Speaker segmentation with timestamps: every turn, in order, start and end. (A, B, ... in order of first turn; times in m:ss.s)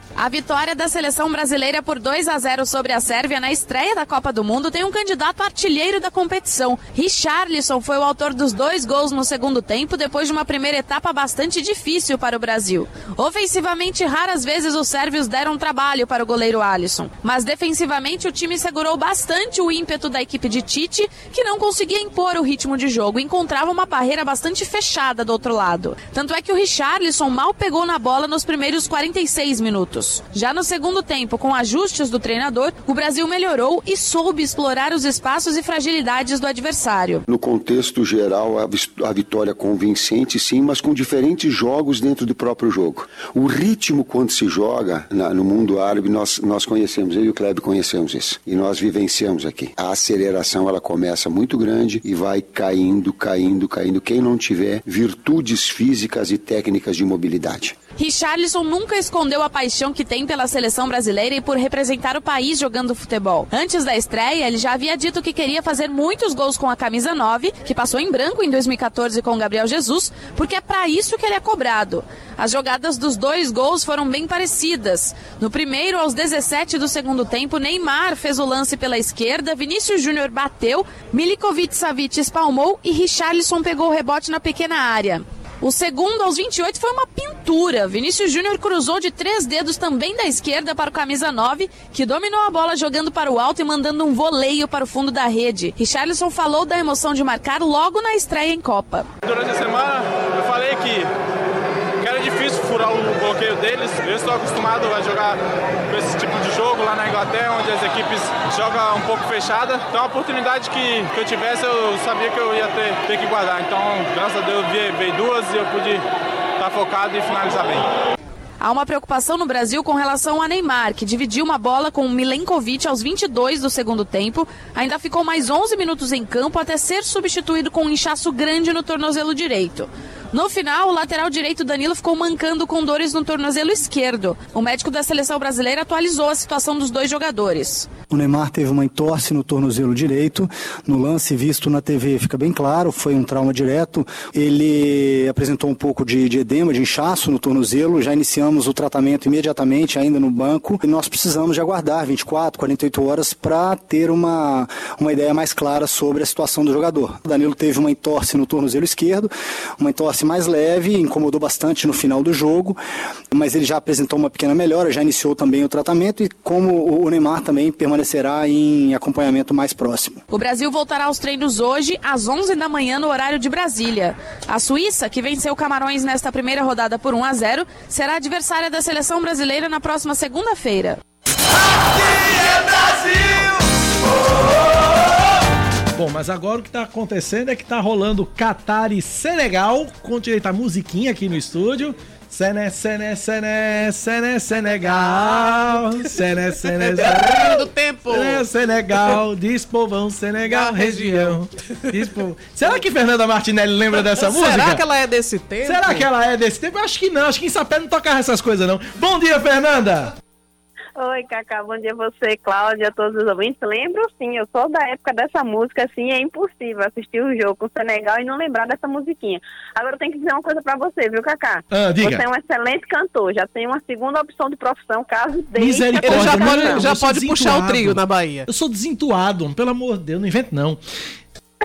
0:00.2-0:37.2 A
0:37.3-0:57.8 B
0:58.0-1:39.1 A
1:39.2-1:41.1 C
1:42.0-1:56.0 C
1:56.6-1:57.9 C
1:58.6-2:17.9 A
2:18.1-2:42.8 D
2:43.3-2:50.2 D
2:50.3-3:01.0 A
3:05.9-3:24.8 E
3:14.8-3:16.1 F
3:16.6-3:18.4 F
3:20.5-3:22.0 F
3:24.0-3:26.1 F
3:25.6-3:30.1 E
3:31.0-3:46.8 G
3:41.7-3:42.2 E
3:45.6-3:50.8 E
3:46.0-3:48.5 F